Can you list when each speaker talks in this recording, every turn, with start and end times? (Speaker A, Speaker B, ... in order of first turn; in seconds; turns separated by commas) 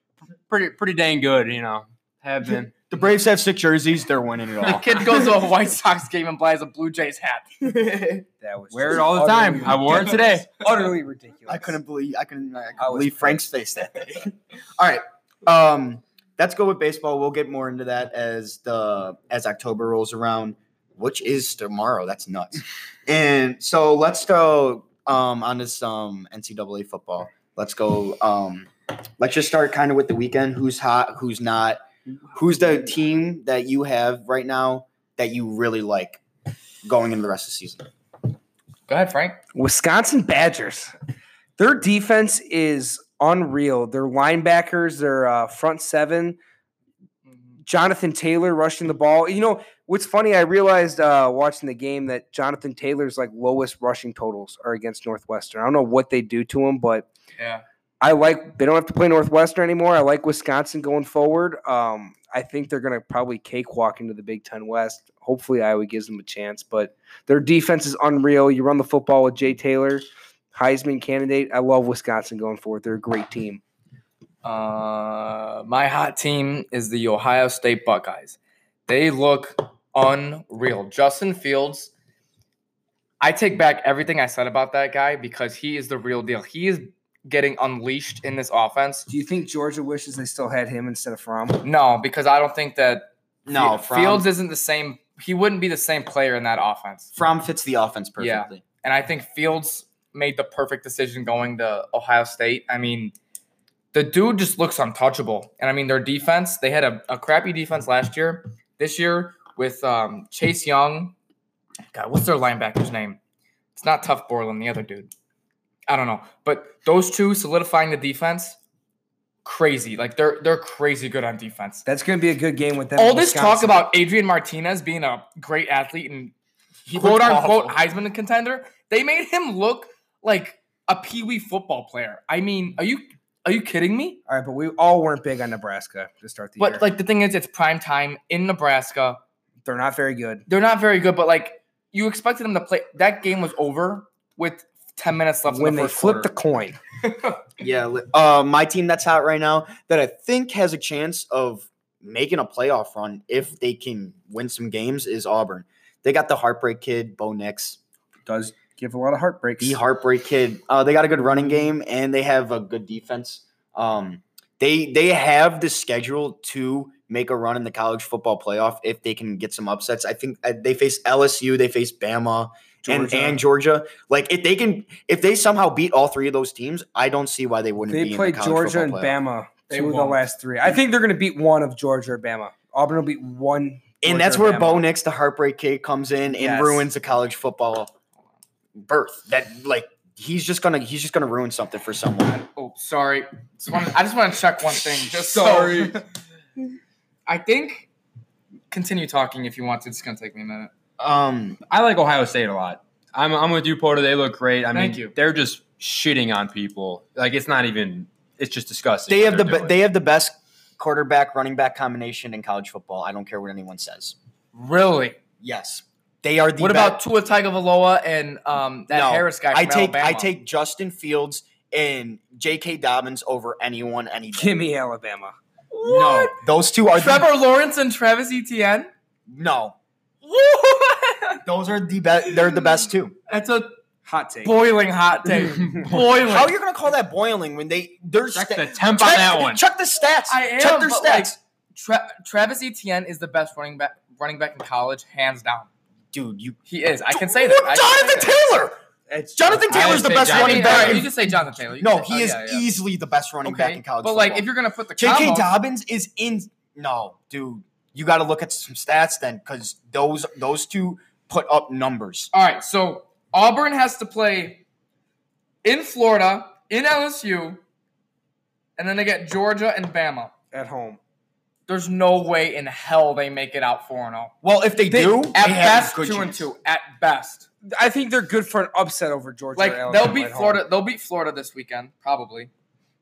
Speaker A: 0.5-2.7, Speaker B: 2.9-5.2, Speaker C: 4.6-7.5, Speaker B: 7.7-8.2, Speaker D: 8.4-11.8, Speaker A: 8.7-10.5, Speaker B: 11.5-36.2, Speaker D: 12.8-13.4, Speaker B: 36.8-37.9, Speaker C: 38.9-39.4, Speaker D: 39.5-40.9, Speaker D: 41.6-46.4, Speaker C: 47.3-47.5, Speaker D: 47.6-57.1, Speaker C: 57.4-57.6, Speaker D: 58.0-73.6, Speaker C: 74.4-81.9, Speaker C: 83.2-89.1, Speaker D: 89.1-91.6, Speaker C: 91.6-97.1, Speaker B: 93.5-94.3, Speaker B: 97.1-98.6, Speaker C: 98.2-103.1, Speaker C: 103.9-111.1, Speaker C: 111.9-113.2, Speaker C: 113.7-115.1, Speaker C: 115.9-118.6, Speaker C: 119.4-121.8, Speaker D: 121.8-123.9, Speaker C: 123.0-126.3, Speaker B: 126.9-127.8, Speaker C: 126.9-134.2, Speaker D: 134.3-136.8, Speaker C: 136.6-139.2, Speaker D: 139.6-140.4, Speaker C: 140.5-146.3, Speaker D: 145.5-146.8, Speaker B: 147.6-157.8, Speaker D: 158.2-159.8, Speaker B: 159.6-179.2, Speaker D: 172.8-173.4, Speaker D: 177.9-184.9, Speaker C: 179.7-180.2, Speaker B: 184.0-187.9, Speaker D: 186.3-186.9, Speaker B: 188.8-192.4, Speaker C: 192.4-196.0, Speaker D: 195.2-196.0, Speaker C: 197.3-197.9, Speaker C: 198.7-200.7, Speaker B: 201.0-201.6, Speaker A: 201.7-209.8, Speaker C: 204.7-205.1, Speaker B: 209.1-214.1, Speaker C: 214.5-215.2, Speaker B: 215.4-217.0, Speaker C: 216.6-220.3, Speaker B: 218.9-224.5, Speaker D: 224.3-225.3, Speaker C: 225.7-226.4, Speaker B: 225.8-227.3, Speaker C: 226.9-228.9, Speaker B: 229.3-229.7, Speaker C: 230.2-231.4, Speaker B: 231.4-233.1, Speaker C: 232.3-232.7, Speaker C: 233.3-233.7, Speaker D: 234.0-234.5, Speaker C: 234.4-236.5, Speaker B: 235.9-241.4, Speaker A: 238.3-239.6, Speaker C: 240.3-245.7, Speaker B: 246.1-246.6, Speaker C: 246.7-248.3, Speaker B: 247.1-248.8, Speaker D: 249.1-250.3, Speaker B: 249.3-251.1, Speaker A: 249.7-251.1, Speaker C: 250.2-252.7, Speaker B: 251.8-262.3, Speaker C: 253.4-255.5, Speaker C: 262.3-264.6, Speaker C: 265.6-267.6, Speaker C: 268.8-270.3, Speaker D: 270.5-271.0, Speaker C: 271.7-274.3, Speaker B: 274.4-276.4, Speaker C: 274.9-277.5, Speaker D: 277.6-280.6, Speaker C: 279.5-282.5